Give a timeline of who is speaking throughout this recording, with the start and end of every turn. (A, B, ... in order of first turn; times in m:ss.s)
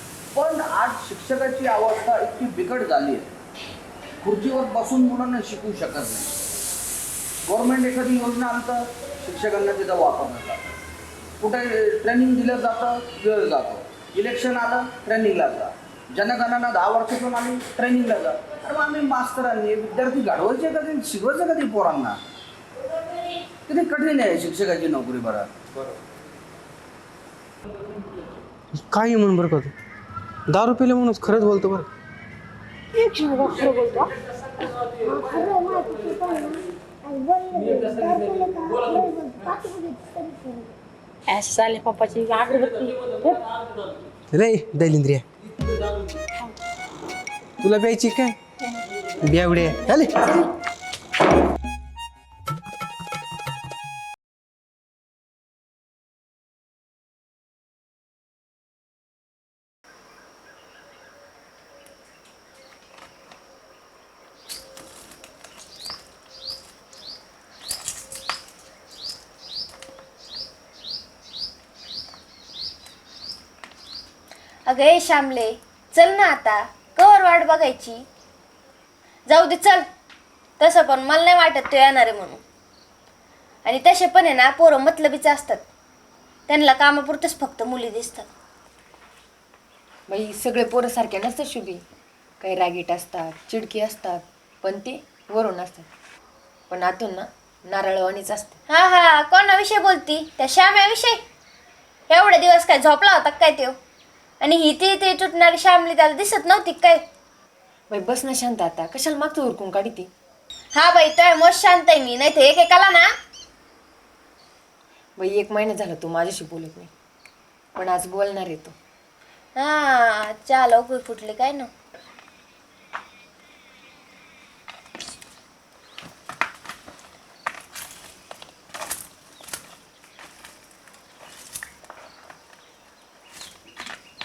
0:00.3-0:03.3 A
0:04.2-0:06.3 A
0:07.5-0:10.7 A
0:11.4-0:22.2 A
0:23.7-0:25.5 A
0:28.7-0:29.7 B
0:30.5-0:31.8 B
0:32.9-0:34.1 C
0:35.0-0:40.7 D
0:41.3-0:43.4 C
0:44.3-0:45.2 B
0:47.6-0:48.4 B
0:49.2-0:50.4 B
1:14.6-1:18.0 E
1:19.3-1:19.8 E
1:20.6-1:22.4 E
1:23.6-1:25.6 E
1:26.5-1:28.3 E
1:30.1-1:31.8 F
1:32.4-1:35.9 F
1:36.7-1:38.6 F
1:38.7-1:41.2 E
1:42.1-1:43.8 E
1:44.4-1:47.0 E
1:47.9-1:50.1 F
1:50.7-1:53.1 E
1:55.2-1:56.9 F
1:57.8-1:58.7 F
1:59.6-2:01.7 E